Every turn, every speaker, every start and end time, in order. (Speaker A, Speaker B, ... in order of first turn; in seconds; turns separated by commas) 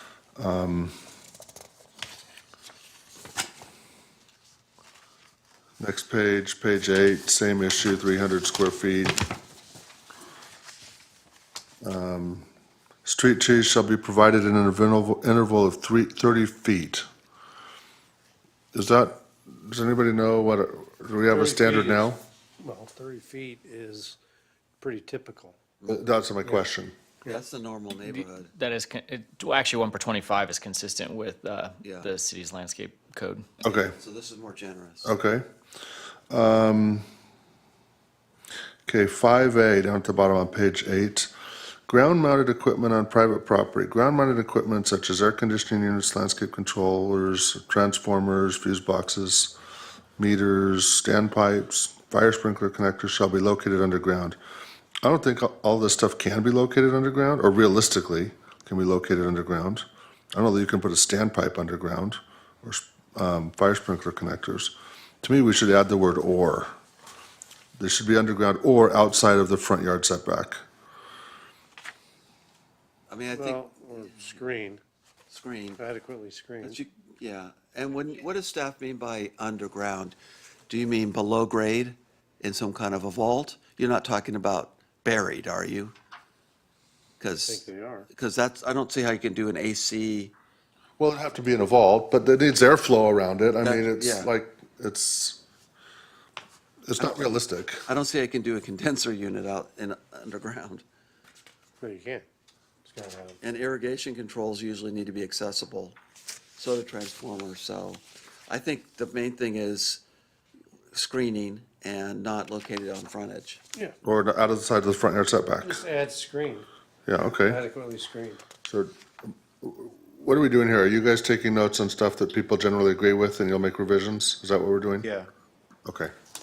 Speaker A: 0.4-0.9, Speaker A: 5.8-9.2, Speaker A: 11.8-12.5, Speaker A: 13.1-17.0, Speaker A: 18.7-22.2, Speaker B: 21.3-24.2, Speaker B: 24.8-25.6, Speaker A: 25.9-26.9, Speaker C: 27.2-28.5, Speaker D: 28.0-33.5, Speaker C: 31.8-32.1, Speaker A: 33.6-34.0, Speaker C: 34.0-35.1, Speaker A: 35.0-35.5, Speaker A: 36.3-37.0, Speaker A: 38.9-41.3, Speaker A: 41.9-49.5, Speaker A: 50.2-54.4, Speaker A: 55.0-66.7, Speaker A: 67.8-70.6, Speaker C: 73.1-74.4, Speaker B: 73.3-74.8, Speaker C: 75.3-75.8, Speaker B: 75.8-76.8, Speaker C: 76.6-80.2, Speaker C: 80.7-85.9, Speaker C: 87.2-90.3, Speaker B: 87.5-88.1, Speaker A: 91.0-95.4, Speaker C: 93.6-94.3, Speaker A: 96.9-97.9, Speaker C: 97.0-97.3, Speaker C: 97.9-100.8, Speaker B: 101.8-102.2, Speaker B: 102.8-103.4, Speaker C: 103.4-106.0, Speaker C: 106.6-110.0, Speaker C: 110.9-113.6, Speaker A: 114.0-115.8, Speaker B: 115.6-116.7, Speaker A: 117.1-117.6, Speaker B: 117.3-118.4, Speaker A: 118.7-125.1, Speaker B: 125.0-125.3, Speaker A: 125.9-126.1